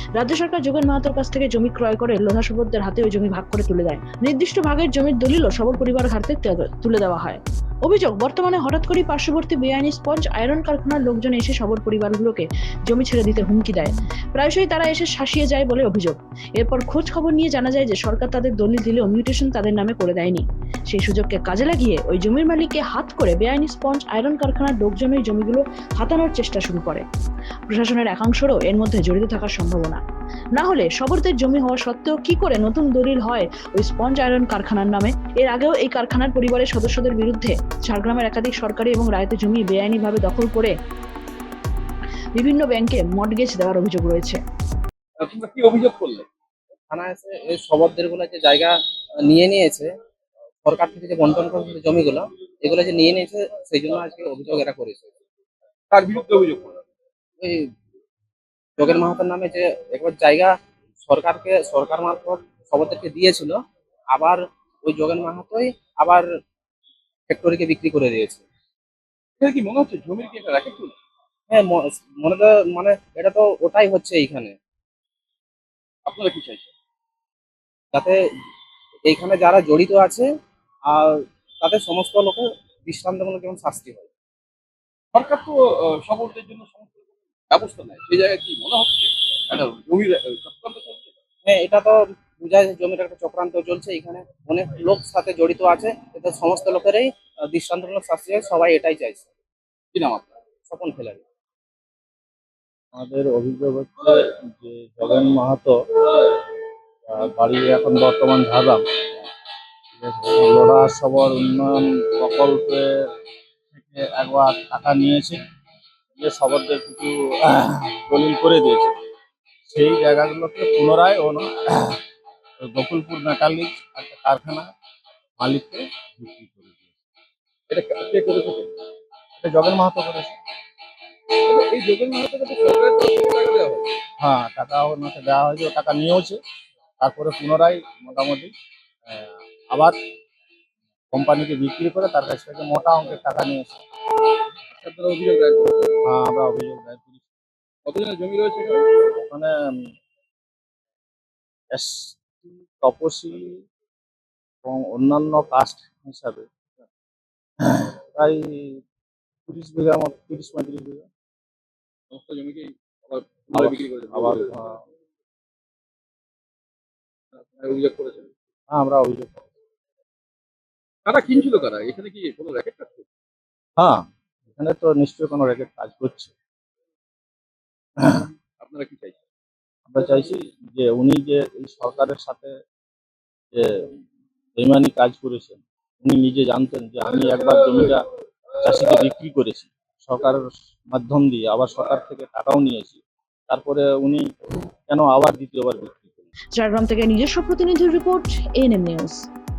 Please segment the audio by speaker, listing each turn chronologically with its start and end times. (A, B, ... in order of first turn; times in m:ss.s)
0:00.2-0:27.0 A
0:27.7-0:30.0 A
0:30.5-0:40.7 A
0:42.4-0:44.4 A
0:45.2-0:46.3 B
0:46.9-0:49.9 C
0:50.6-0:55.1 C
0:55.9-0:56.8 B
0:57.4-0:57.7 C
0:58.8-1:00.5 C
1:01.1-1:03.6 C
1:04.1-1:06.2 C
1:07.3-1:08.4 C
1:09.4-1:10.9 B
1:11.5-1:14.5 C
1:16.1-1:16.7 B
1:17.9-1:18.2 C
1:19.1-1:20.3 C
1:20.9-1:24.1 C
1:25.1-1:31.1 B
1:31.4-1:39.3 C
1:39.9-1:40.3 B
1:40.7-1:41.2 C
1:43.0-1:46.4 D
1:47.1-1:48.8 D
1:50.0-1:53.1 D
1:53.7-1:55.4 D
1:56.2-1:58.9 D
1:59.7-2:02.0 D
2:02.6-2:04.6 D
2:05.4-2:06.9 D
2:07.7-2:08.7 B
2:09.4-2:10.4 D
2:11.4-2:13.9 B
2:14.2-2:16.4 D
2:17.0-2:18.5 D
2:19.1-2:20.0 D
2:21.1-2:23.8 D
2:24.8-2:26.0 B
2:26.1-2:27.2 D
2:27.9-2:28.9 B
2:29.2-2:29.5 D
2:31.7-2:33.6 D
2:34.6-2:36.5 D
2:37.6-2:38.8 D
2:39.5-2:41.1 D
2:42.1-2:44.5 B
2:43.5-2:44.8 D
2:47.3-2:48.3 B
2:48.7-2:49.5 D
2:51.1-2:53.0 B
2:53.8-2:56.3 D
2:58.0-2:58.2 D
2:58.6-2:59.2 B
2:59.9-3:02.6 D
3:03.5-3:03.9 D
3:04.6-3:08.0 D
3:08.6-3:14.3 D
3:14.9-3:16.2 D
3:16.6-3:19.3 A